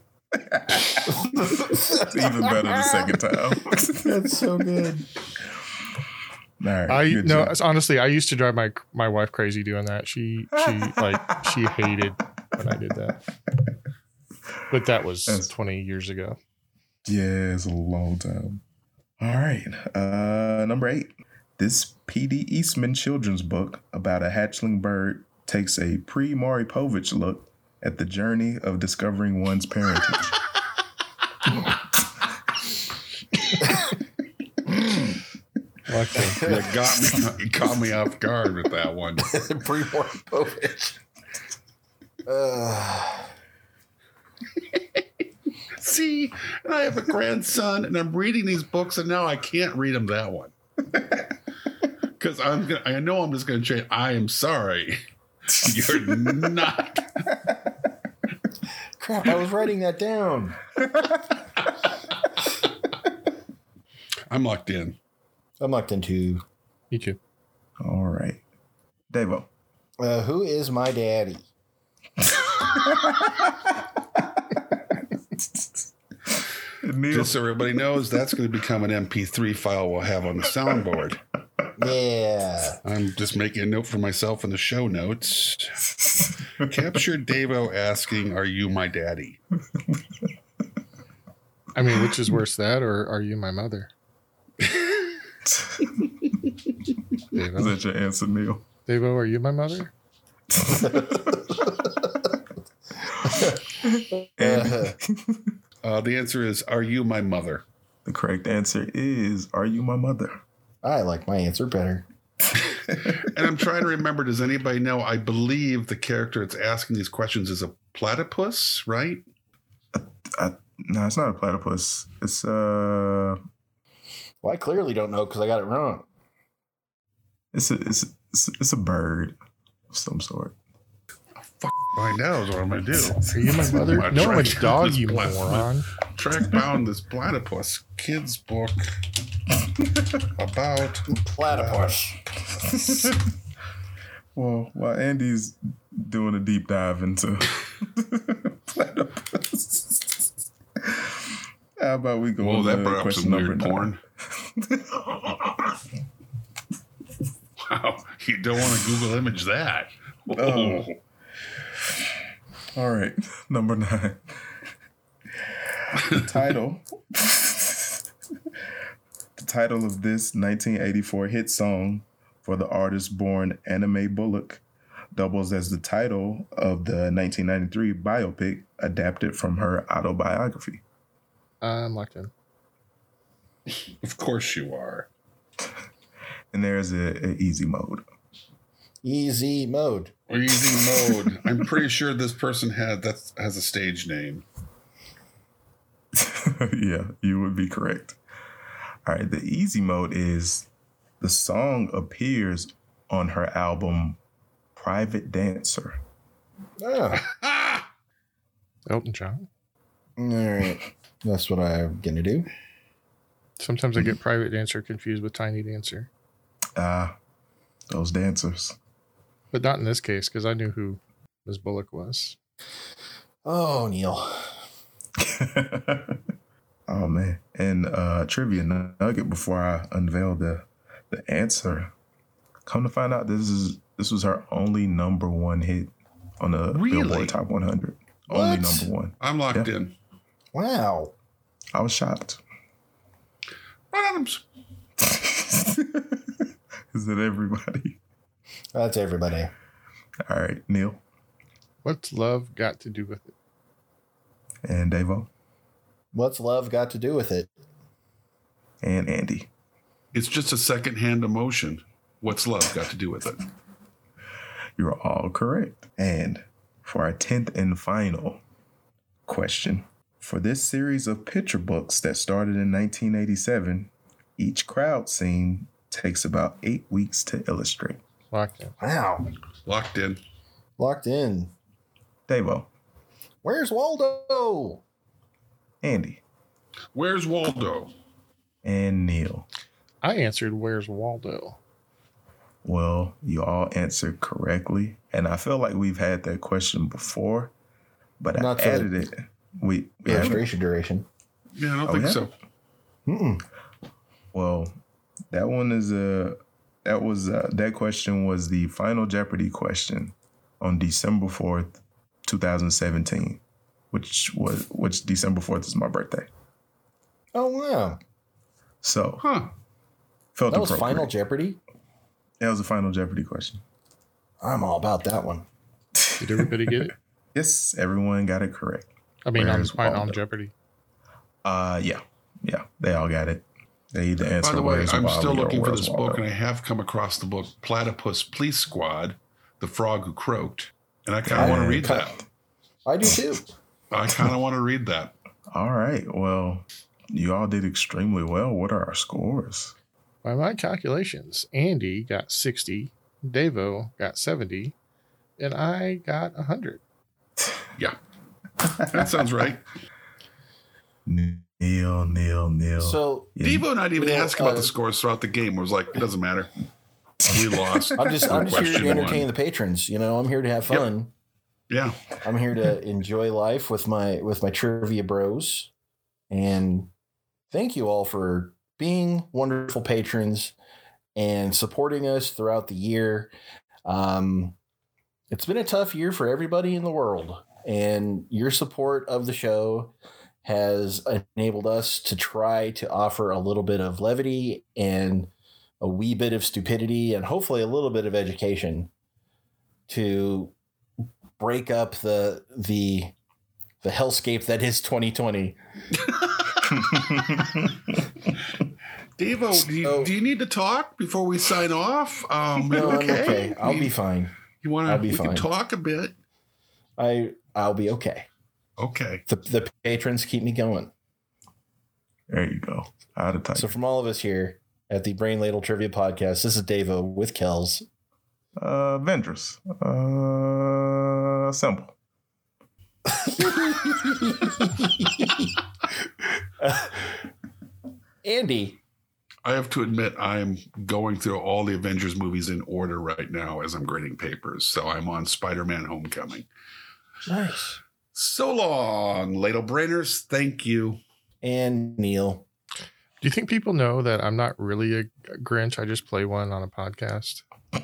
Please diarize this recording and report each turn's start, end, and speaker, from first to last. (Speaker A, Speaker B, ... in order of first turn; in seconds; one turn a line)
Speaker A: 0.3-4.9
Speaker B: 1.1-3.0
Speaker B: 4.0-5.1
Speaker A: 6.6-7.5
Speaker C: 6.9-13.2
Speaker A: 10.6-11.0
Speaker C: 14.7-16.4
Speaker A: 17.0-18.6
Speaker A: 19.2-30.3
Speaker B: 34.6-35.2
Speaker C: 35.9-36.4
Speaker B: 36.3-36.6
Speaker D: 36.4-39.4
Speaker B: 39.2-41.0
Speaker B: 42.2-43.3
Speaker D: 45.8-50.5
Speaker D: 52.2-57.4
Speaker B: 59.0-60.6
Speaker D: 64.3-65.0
Speaker B: 65.6-66.4
Speaker C: 66.9-67.2
Speaker A: 67.8-68.4
Speaker A: 69.1-69.5
Speaker B: 70.0-71.4
Speaker A: 72.9-73.4
Speaker A: 75.4-75.7
Speaker A: 76.8-77.4
Speaker D: 77.1-81.2
Speaker B: 81.8-82.8
Speaker D: 82.8-86.0
Speaker D: 86.6-89.4
Speaker A: 89.7-90.3
Speaker C: 91.7-93.9
Speaker A: 95.5-96.3
Speaker C: 97.3-97.8
Speaker A: 97.5-98.6
Speaker C: 98.9-99.9
Speaker A: 100.5-101.6
Speaker B: 103.2-105.0
Speaker A: 103.8-105.5
Speaker D: 105.8-107.6
Speaker A: 108.0-110.4
Speaker B: 110.8-112.0
Speaker D: 112.9-119.2
Speaker A: 119.9-123.4
Speaker B: 124.4-126.0
Speaker A: 127.5-129.4
Speaker A: 129.9-130.6
Speaker D: 131.4-138.9
Speaker C: 133.1-135.9
Speaker D: 140.2-142.0
Speaker B: 141.1-142.2
Speaker A: 142.6-143.2
Speaker A: 144.3-150.3
Speaker A: 150.8-155.7
Speaker D: 152.4-154.0
Speaker D: 157.6-160.9
Speaker A: 160.3-160.9
Speaker A: 162.7-164.4
Speaker A: 165.8-168.0
Speaker A: 169.4-174.6
Speaker A: 175.1-180.8
Speaker C: 181.6-182.3
Speaker D: 183.8-185.1
Speaker A: 186.5-188.0
Speaker B: 189.0-190.1
Speaker D: 190.3-194.4
Speaker A: 196.1-198.2
Speaker A: 199.1-200.7
Speaker A: 201.2-204.2
Speaker A: 204.7-206.0
Speaker B: 206.8-207.2
Speaker D: 207.2-207.8
Speaker C: 208.9-209.5
Speaker B: 210.2-212.5
Speaker C: 213.6-216.1
Speaker A: 216.8-217.1
Speaker A: 217.9-218.8
Speaker C: 219.5-222.4
Speaker B: 223.4-224.6
Speaker A: 225.2-226.2
Speaker A: 226.9-231.9
Speaker A: 232.7-239.7
Speaker D: 236.7-237.3
Speaker B: 238.3-238.9
Speaker D: 239.2-239.9
Speaker B: 240.5-241.1
Speaker A: 241.7-242.4
Speaker D: 243.9-244.4
Speaker A: 245.0-248.0
Speaker B: 248.7-249.5
Speaker A: 250.3-251.0
Speaker C: 251.8-253.3
Speaker A: 254.6-255.3
Speaker B: 256.1-257.5
Speaker A: 258.8-259.5
Speaker D: 260.1-263.4
Speaker A: 264.8-268.4
Speaker A: 269.3-278.0
Speaker C: 278.3-278.7
Speaker B: 278.8-279.3
Speaker D: 279.6-280.2
Speaker B: 280.8-281.5
Speaker A: 282.3-282.7
Speaker B: 283.4-284.8
Speaker A: 285.8-286.2
Speaker D: 286.9-287.9
Speaker A: 288.6-289.5
Speaker C: 290.0-291.6
Speaker A: 292.6-297.5
Speaker A: 298.2-300.4
Speaker B: 298.3-298.9
Speaker B: 300.1-301.1
Speaker D: 300.1-300.4
Speaker D: 301.6-302.3
Speaker A: 301.9-302.2
Speaker B: 303.1-303.4
Speaker A: 304.3-304.7
Speaker A: 305.3-313.4
Speaker A: 313.9-316.3
Speaker B: 317.3-318.0
Speaker A: 318.8-319.2
Speaker D: 319.2-319.5
Speaker A: 320.3-321.1
Speaker B: 320.5-321.6
Speaker A: 322.4-323.6
Speaker B: 324.4-325.4
Speaker A: 325.9-326.7
Speaker C: 326.2-326.9
Speaker A: 327.3-330.2
Speaker C: 329.2-330.5
Speaker A: 331.4-336.2
Speaker D: 334.4-342.2
Speaker A: 341.2-342.1
Speaker B: 341.4-342.1
Speaker B: 342.8-343.5
Speaker D: 343.9-345.1
Speaker A: 345.5-349.7
Speaker C: 350.2-354.7
Speaker C: 355.4-356.8
Speaker D: 358.8-359.6
Speaker A: 361.1-363.7
Speaker B: 362.8-363.3
Speaker D: 363.4-366.5
Speaker B: 363.9-364.7
Speaker D: 367.2-369.3
Speaker A: 367.3-368.8
Speaker B: 367.9-371.1
Speaker D: 371.7-372.1
Speaker B: 372.2-375.7
Speaker B: 376.3-376.9
Speaker B: 377.5-380.5
Speaker B: 381.1-383.3
Speaker B: 383.8-384.6
Speaker B: 385.3-398.9
Speaker B: 399.9-400.5
Speaker B: 401.4-403.1
Speaker B: 403.8-405.6
Speaker A: 406.7-407.8
Speaker D: 409.2-413.9
Speaker B: 409.8-410.1
Speaker B: 412.7-414.3
Speaker D: 414.6-416.1
Speaker B: 414.9-415.5
Speaker B: 417.0-418.3
Speaker D: 418.8-419.2
Speaker B: 419.3-420.9
Speaker A: 422.3-423.7
Speaker B: 423.6-427.8
Speaker A: 428.6-431.9
Speaker B: 433.1-435.5
Speaker B: 436.2-437.1
Speaker B: 438.2-438.8
Speaker D: 439.4-446.4
Speaker B: 447.2-447.8
Speaker D: 448.1-451.0
Speaker B: 451.4-452.4
Speaker C: 453.2-457.4